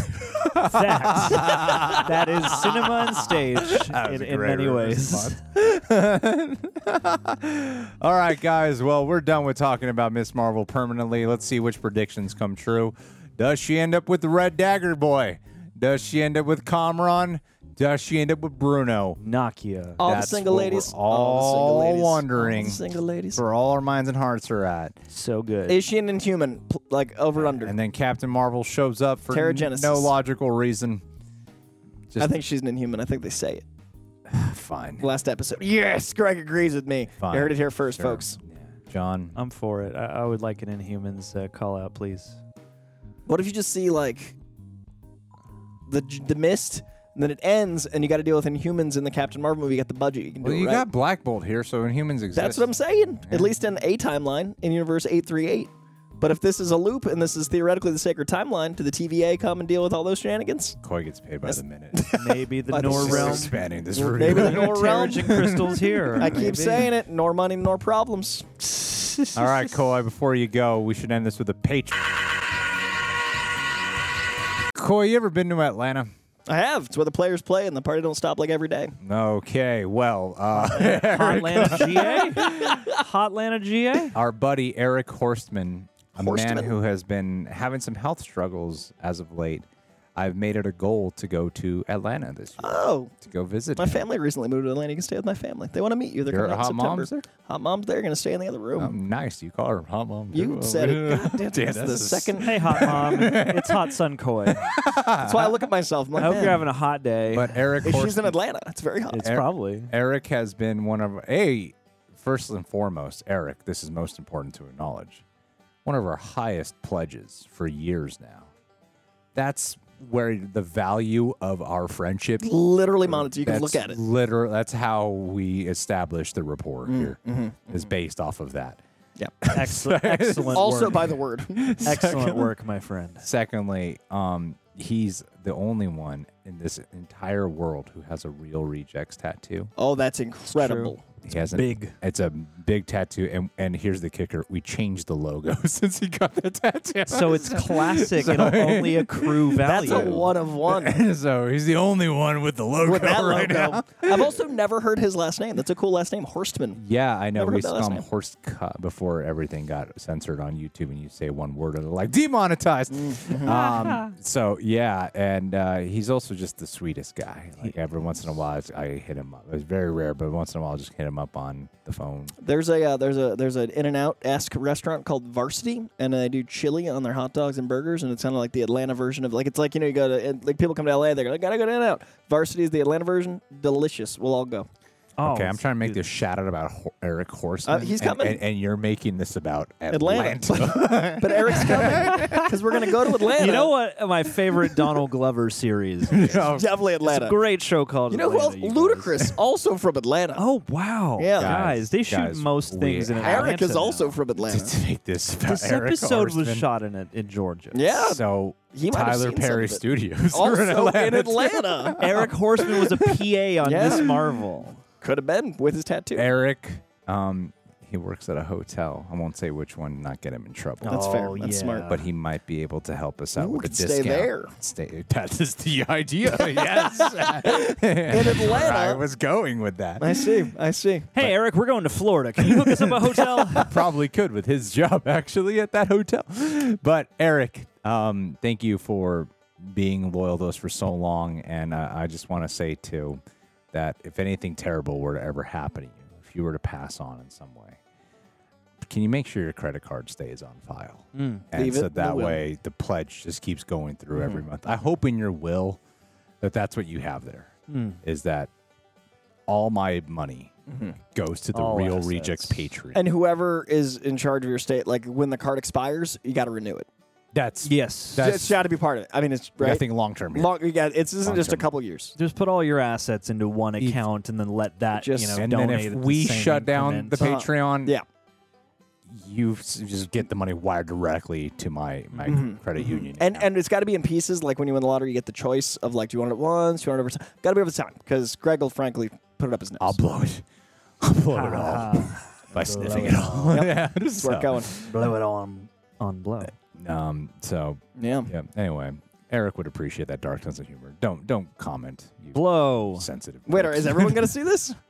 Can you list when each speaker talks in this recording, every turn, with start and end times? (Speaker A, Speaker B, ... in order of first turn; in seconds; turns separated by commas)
Speaker A: 0.4-19.2, Speaker B: 0.5-5.4, Speaker B: 19.2-20.0, Speaker C: 20.0-23.4, Speaker A: 20.0-22.8, Speaker A: 23.3-24.9, Speaker B: 25.1-25.8, Speaker C: 25.7-27.7, Speaker A: 27.4-31.0, Speaker C: 29.3-30.1, Speaker C: 32.2-33.6, Speaker A: 34.3-35.0, Speaker C: 35.0-38.2, Speaker A: 37.2-39.4, Speaker B: 39.4-42.4, Speaker C: 43.3-44.4, Speaker C: 45.9-50.9, Speaker A: 50.4-52.7, Speaker C: 52.4-60.8, Speaker A: 60.8-62.1, Speaker C: 61.5-65.5, Speaker B: 62.1-63.6, Speaker A: 62.7-66.5, Speaker B: 64.2-66.9, Speaker C: 66.2-68.5, Speaker A: 69.3-72.1, Speaker A: 74.7-76.1, Speaker C: 76.5-78.9, Speaker A: 79.0-82.8, Speaker B: 80.6-84.1, Speaker C: 81.7-82.9, Speaker A: 84.1-94.0, Speaker C: 86.2-86.7, Speaker C: 92.6-93.1, Speaker C: 93.8-98.9, Speaker A: 96.3-97.2, Speaker A: 98.8-103.9, Speaker C: 100.3-103.0, Speaker B: 102.4-104.7, Speaker A: 104.5-105.6, Speaker C: 105.2-106.6, Speaker B: 106.2-107.7, Speaker A: 106.2-106.6, Speaker A: 107.3-108.3, Speaker C: 107.8-109.3, Speaker B: 109.1-109.9, Speaker A: 109.2-115.2, Speaker A: 115.8-118.5, Speaker A: 119.3-122.5, Speaker C: 122.4-124.0, Speaker A: 123.0-128.8, Speaker C: 126.9-127.8, Speaker A: 129.4-132.5, Speaker B: 129.5-131.1, Speaker C: 130.5-131.6, Speaker B: 131.8-133.2, Speaker A: 133.2-139.7, Speaker C: 139.8-141.0, Speaker B: 140.5-141.9, Speaker A: 141.2-154.3, Speaker B: 147.1-150.3, Speaker C: 149.6-151.0, Speaker C: 152.8-156.8, Speaker A: 156.8-172.3, Speaker C: 157.4-158.1, Speaker C: 162.9-163.6, Speaker B: 163.4-164.1, Speaker C: 172.4-184.7, Speaker B: 185.2-186.0, Speaker A: 185.2-192.5, Speaker C: 187.6-188.4, Speaker C: 189.9-193.7, Speaker B: 191.6-199.2, Speaker A: 196.1-196.7, Speaker C: 196.5-197.4, Speaker C: 198.1-200.4, Speaker B: 200.4-204.2, Speaker C: 201.2-201.6, Speaker A: 201.4-203.5, Speaker C: 203.2-204.8, Speaker A: 204.5-206.7, Speaker B: 205.4-207.8, Speaker C: 207.7-208.2, Speaker A: 208.0-213.2, Speaker C: 208.7-212.0, Speaker B: 212.0-214.8, Speaker C: 213.6-214.2, Speaker A: 213.8-214.1, Speaker C: 215.0-216.3, Speaker A: 216.1-221.0, Speaker B: 220.8-222.0, Speaker C: 220.8-221.9, Speaker A: 221.9-230.3, Speaker C: 223.3-224.5, Speaker C: 226.4-229.0, Speaker C: 230.0-231.1, Speaker B: 231.1-233.8, Speaker A: 232.6-243.2, Speaker A: 243.7-247.8, Speaker A: 248.8-255.8, Speaker B: 251.1-251.4, Speaker C: 251.5-252.4, Speaker C: 254.2-254.4, Speaker A: 256.4-258.5, Speaker B: 257.7-258.0, Speaker A: 259.5-260.6, Speaker C: 260.7-260.9, Speaker A: 261.1-263.0, Speaker B: 261.5-262.7, Speaker C: 262.9-266.9, Speaker A: 267.3-268.6, Speaker B: 267.6-268.3, Speaker C: 268.2-272.1, Speaker A: 269.6-270.5, Speaker A: 271.2-271.7, Speaker B: 272.2-277.3, Speaker C: 274.9-275.5, Speaker A: 275.4-277.9, Speaker C: 277.2-278.0, Speaker A: 279.1-283.5, Speaker C: 282.2-290.0, Speaker A: 289.8-290.4, Speaker A: 291.0-294.9, Speaker B: 291.3-293.6, Speaker C: 293.0-294.7, Speaker B: 294.7-296.5, Speaker A: 296.8-302.4, Speaker C: 297.9-298.3, Speaker B: 302.3-303.1, Speaker A: 302.9-304.3, Speaker C: 303.5-304.8